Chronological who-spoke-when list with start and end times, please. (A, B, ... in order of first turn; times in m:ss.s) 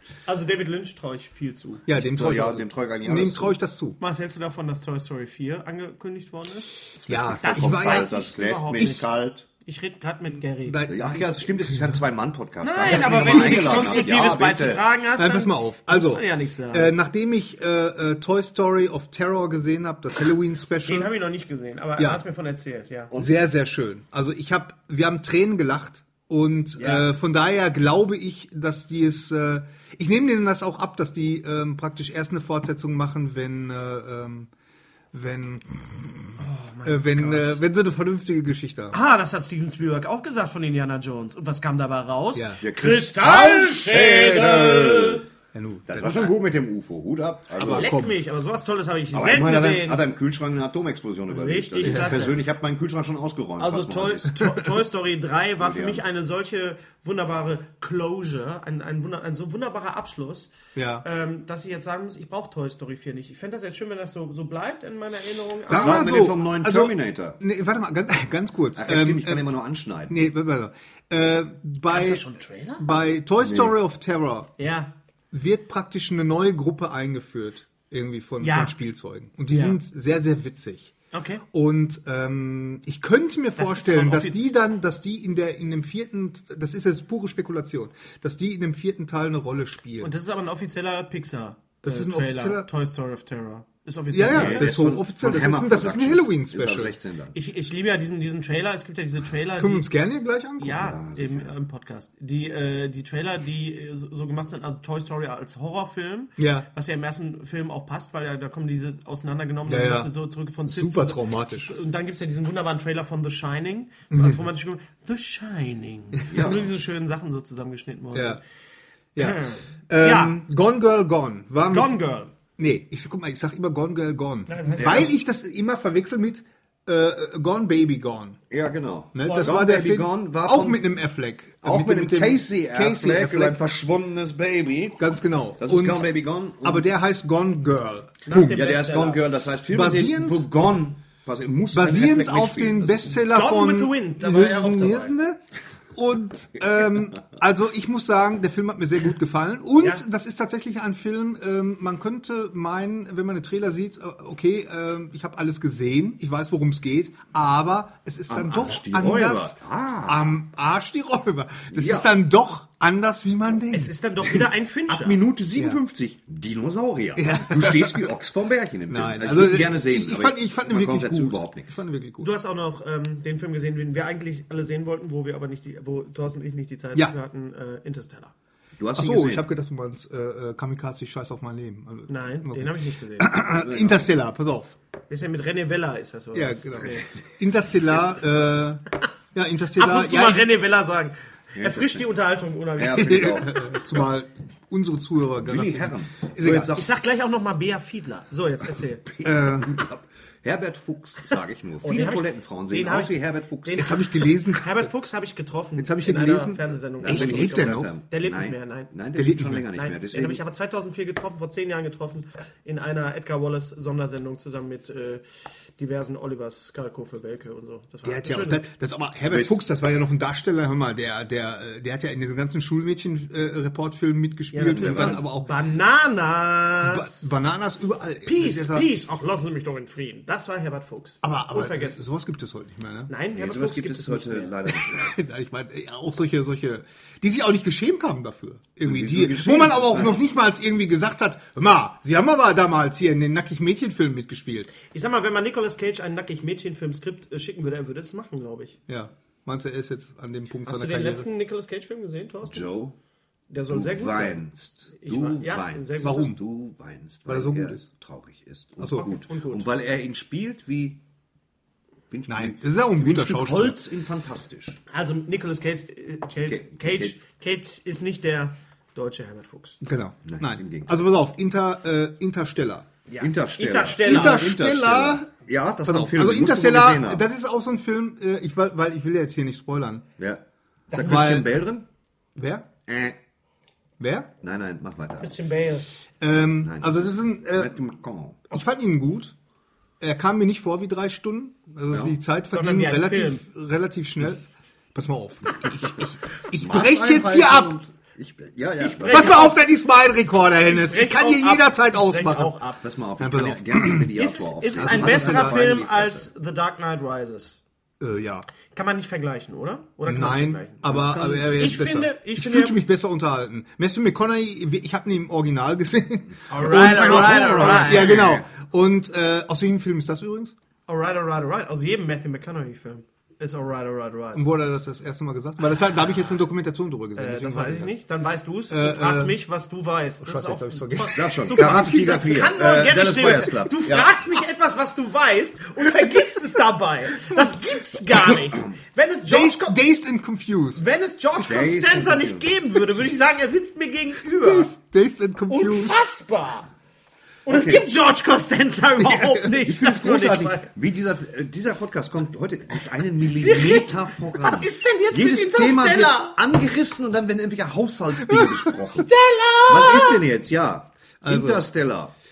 0:00.3-0:01.9 A
0:01.9-0:04.0 B
0:02.0-0:03.6 C
0:04.0-0:06.7 A
0:07.0-0:09.5 C
0:07.1-0:08.2 B
0:07.4-0:09.1 A
0:09.6-0:10.8 A
0:10.6-0:11.4 B
0:10.9-0:14.8 C
0:12.6-0:16.9 A
0:12.9-0:14.1 B
0:15.2-0:21.1 B
0:20.8-0:23.1 A
0:22.0-0:22.2 B
0:23.1-0:34.5 B
0:26.8-0:27.0 C
0:35.1-0:39.0 B
0:36.4-0:37.6 A
0:38.9-0:45.2 A
0:42.4-0:42.6 B
0:42.6-0:45.3 C
0:45.5-0:46.3 B
0:45.9-0:47.9 C
0:47.6-0:48.2 B
0:47.7-0:50.0 A
0:49.1-0:54.3 C
0:51.3-0:52.4 A
0:51.8-0:52.3 B
0:53.6-1:06.2 A
0:55.6-0:56.0 C
1:00.8-1:01.0 B
1:05.7-1:09.5 B
1:05.7-1:07.4 C
1:08.8-1:10.3 C
1:10.1-1:12.2 B
1:11.9-1:13.1 A
1:12.8-1:14.5 B
1:13.4-1:13.7 C
1:14.6-1:14.9 A
1:15.3-1:20.9 B
1:18.4-1:18.8 A
1:19.5-1:19.8 A
1:21.1-1:21.4 A
1:21.5-1:30.1 B
1:23.6-1:24.5 A
1:30.0-1:34.7 A
1:31.8-1:32.7 B
1:34.1-1:37.0 B
1:34.3-1:37.4 C
1:37.3-1:39.9 A
1:39.6-1:40.9 B
1:40.6-1:58.4 A
1:40.7-1:41.5 C
1:46.4-1:46.7 B
1:49.7-1:50.1 B
1:50.7-1:51.7 B
1:54.1-1:54.4 B
1:56.3-1:56.7 C
1:58.1-1:58.4 B
1:59.2-2:02.0 B
1:59.2-2:00.4 A
2:01.7-2:02.3 A
2:02.6-2:08.4 B
2:04.5-2:05.1 A
2:04.8-2:05.1 C
2:08.5-2:10.8 C
2:09.1-2:13.6 B
2:11.6-2:15.0 C
2:15.0-2:16.1 B
2:15.6-2:16.9 C
2:16.6-2:18.8 B
2:18.3-2:19.2 A
2:18.5-2:23.2 C
2:19.7-2:20.5 B
2:21.7-2:25.4 B
2:23.2-2:25.2 A
2:25.9-2:43.9 B
2:29.8-2:30.0 A
2:38.3-2:40.4 C
2:41.7-2:42.1 C
2:43.7-2:45.2 A
2:44.9-2:51.8 C
2:47.2-2:48.1 B
2:48.9-2:52.3 B
2:52.2-2:58.3 A
2:58.8-2:59.5 C
2:59.0-3:04.8 B
3:02.1-3:03.4 A
3:03.5-3:04.1 C
3:05.1-3:07.1 A
3:06.3-3:08.8 B
3:09.3-3:10.5 B
3:09.8-3:13.6 A
3:11.6-3:12.1 C
3:12.8-3:13.7 C
3:13.0-3:16.7 B
3:15.4-3:16.9 C
3:16.7-3:19.1 A
3:19.1-3:24.0 C
3:19.2-3:19.8 B
3:21.8-3:28.9 A
3:23.8-3:24.9 B
3:25.8-3:27.9 B
3:27.0-3:30.4 C
3:29.2-3:29.7 B
3:29.7-3:35.2 A
3:35.8-3:38.6 A
3:38.0-3:45.5 B
3:39.3-3:39.6 C
3:44.5-3:47.3 A
3:44.7-3:45.2 C
3:46.8-3:48.9 B
3:48.2-3:52.0 A
3:51.2-3:53.1 B
3:53.1-3:54.6 A
3:53.3-3:55.2 C
3:54.8-4:04.7 B
3:58.8-4:00.3 C
4:04.8-4:08.8 A
4:08.9-4:11.3 B
4:10.7-4:12.7 A
4:12.4-4:13.0 C
4:13.5-4:14.4 A
4:13.7-4:21.0 C
4:15.0-4:16.3 A
4:16.0-4:16.4 B
4:17.3-4:17.9 B
4:18.8-4:19.1 B
4:18.9-4:19.7 A
4:22.1-4:24.8 C
4:22.3-4:23.8 B
4:24.9-4:29.8 A
4:26.4-4:27.2 C
4:29.8-4:32.9 B
4:30.2-4:31.0 C
4:33.1-4:34.4 A
4:33.2-4:37.2 C
4:34.0-4:35.3 B
4:35.8-4:40.1 B
4:40.2-4:41.9 C
4:40.9-4:41.5 B
4:42.4-4:42.7 B
4:42.9-4:43.2 C
4:44.0-4:44.3 B
4:44.4-4:45.4 C
4:45.2-4:45.9 A
4:46.2-4:47.8 B
4:46.6-4:48.5 C
4:48.5-4:49.4 B
4:50.0-4:57.8 B
4:51.9-4:52.2 C
4:52.5-4:53.4 A
4:56.6-4:59.5 C
4:58.8-4:59.6 A
4:59.0-5:02.6 B
5:00.6-5:02.8 A
5:02.8-5:06.3 C
5:03.2-5:04.1 B
5:04.2-5:07.6 A
5:04.8-5:05.6 B
5:08.0-5:08.5 B
5:08.7-5:12.8 A
5:10.1-5:20.6 B
5:10.9-5:11.5 C
5:16.5-5:18.2 A
5:16.6-5:18.5 C
5:20.9-5:24.4 A
5:24.3-5:28.0 B
5:27.2-5:39.8 A
5:28.7-5:29.4 B
5:30.2-5:32.3 B
5:31.1-5:34.1 C
5:39.3-5:40.8 B
5:40.8-5:44.7 A
5:41.4-5:42.5 C
5:44.4-5:46.0 B
5:45.5-5:46.7 A
5:47.4-5:50.7 A
5:47.5-5:47.8 C
5:49.6-5:59.1 C
5:53.4-5:56.4 A
5:58.2-5:58.6 B
5:58.7-6:00.2 A
5:59.7-6:02.2 C
6:01.2-6:01.7 B